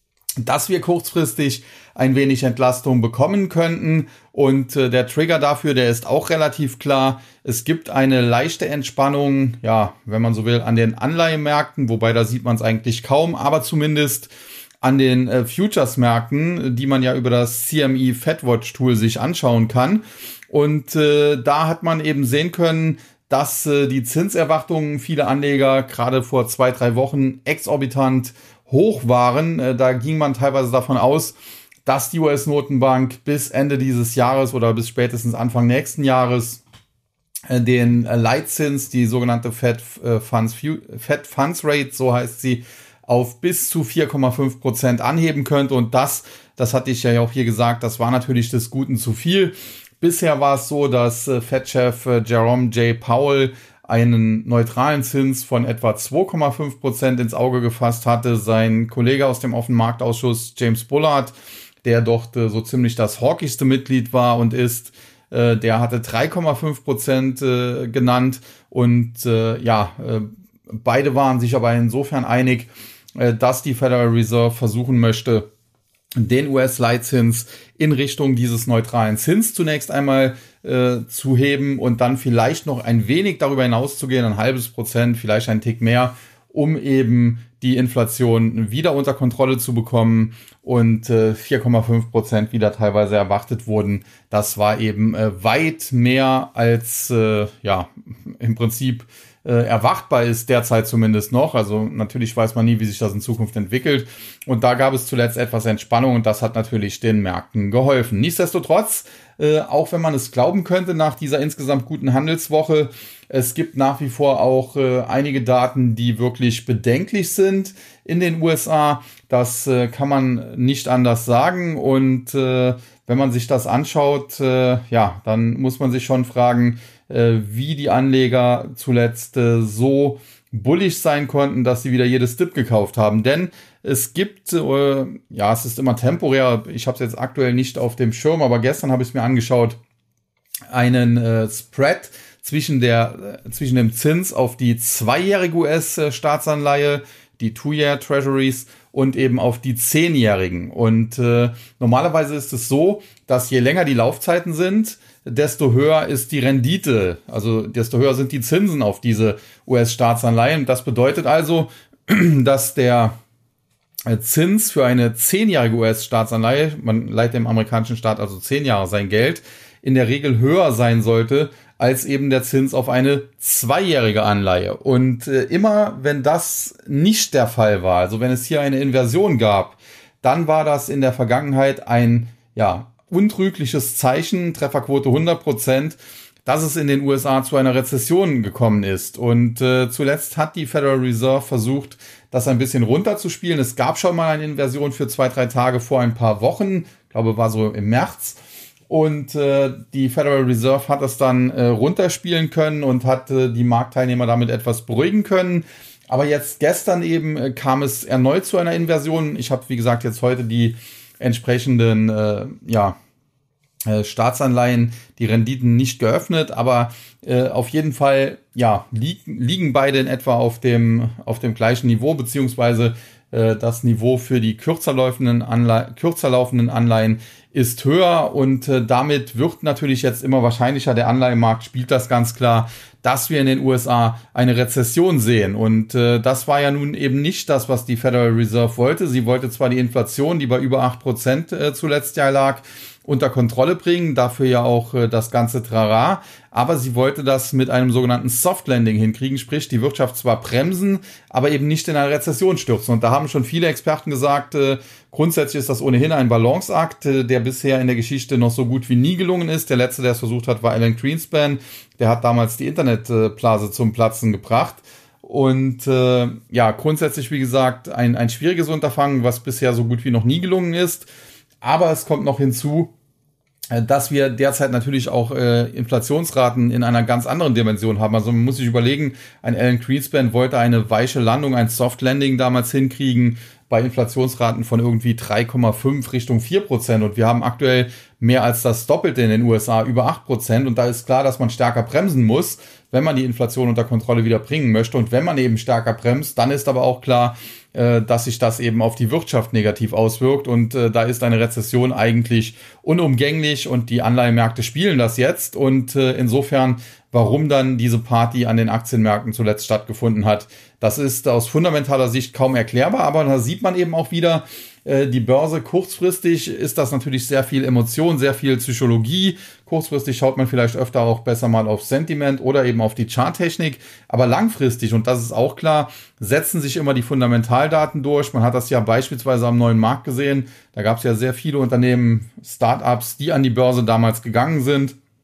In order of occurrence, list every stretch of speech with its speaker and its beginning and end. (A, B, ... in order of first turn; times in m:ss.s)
0:00.4-0:14.3 A
0:14.8-0:31.4 A
0:31.9-0:36.6 A
0:37.5-1:15.5 A
1:16.2-2:19.8 A
2:20.7-2:43.2 A
2:44.1-3:33.0 A
3:33.9-4:31.1 A
4:31.6-4:32.9 A
4:33.7-5:35.0 A